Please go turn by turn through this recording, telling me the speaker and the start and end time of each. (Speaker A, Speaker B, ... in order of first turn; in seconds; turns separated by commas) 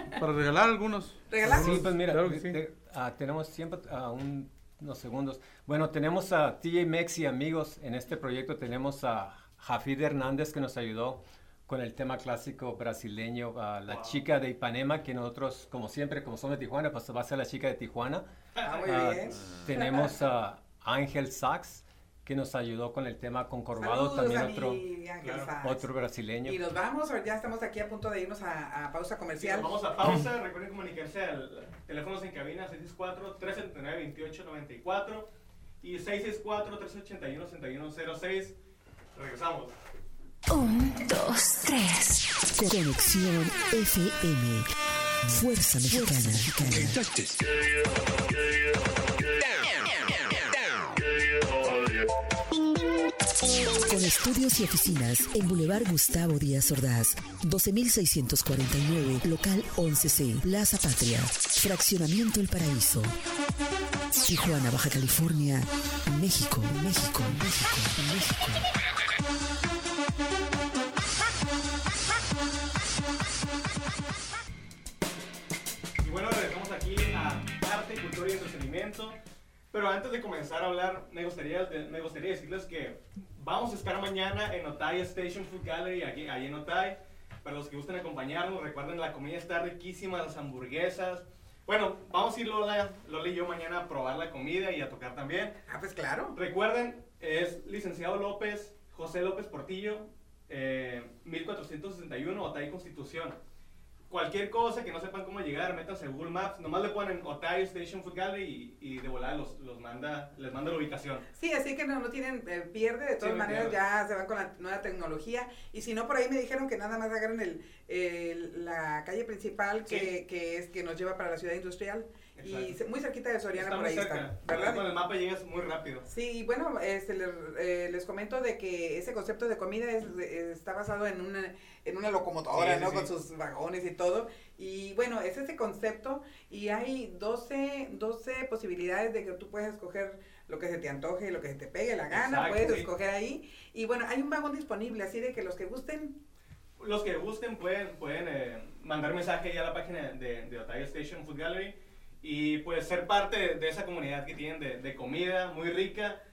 Speaker A: 0.2-2.6, Speaker B: 1.3-1.9, Speaker C: 1.4-18.3, Speaker D: 13.9-14.2, Speaker D: 18.6-19.0, Speaker B: 18.6-20.1, Speaker C: 18.8-24.8, Speaker B: 23.8-25.9, Speaker D: 25.2-25.5, Speaker C: 25.6-26.6, Speaker B: 26.4-29.7, Speaker D: 29.4-35.3, Speaker D: 35.8-38.6, Speaker D: 39.1-39.7, Speaker E: 40.5-42.4, Speaker F: 42.5-44.7, Speaker F: 45.3-47.1, Speaker F: 53.9-63.2, Speaker F: 64.2-68.7, Speaker D: 76.0-79.2, Speaker D: 79.7-95.6, Speaker B: 95.7-96.4, Speaker D: 96.4-103.4, Speaker D: 104.1-111.3, Speaker B: 111.4-124.9, Speaker D: 113.2-113.8, Speaker D: 122.4-122.8, Speaker D: 123.5-126.1, Speaker B: 126.1-146.2, Speaker D: 132.5-133.1, Speaker D: 142.1-142.9, Speaker D: 146.8-156.2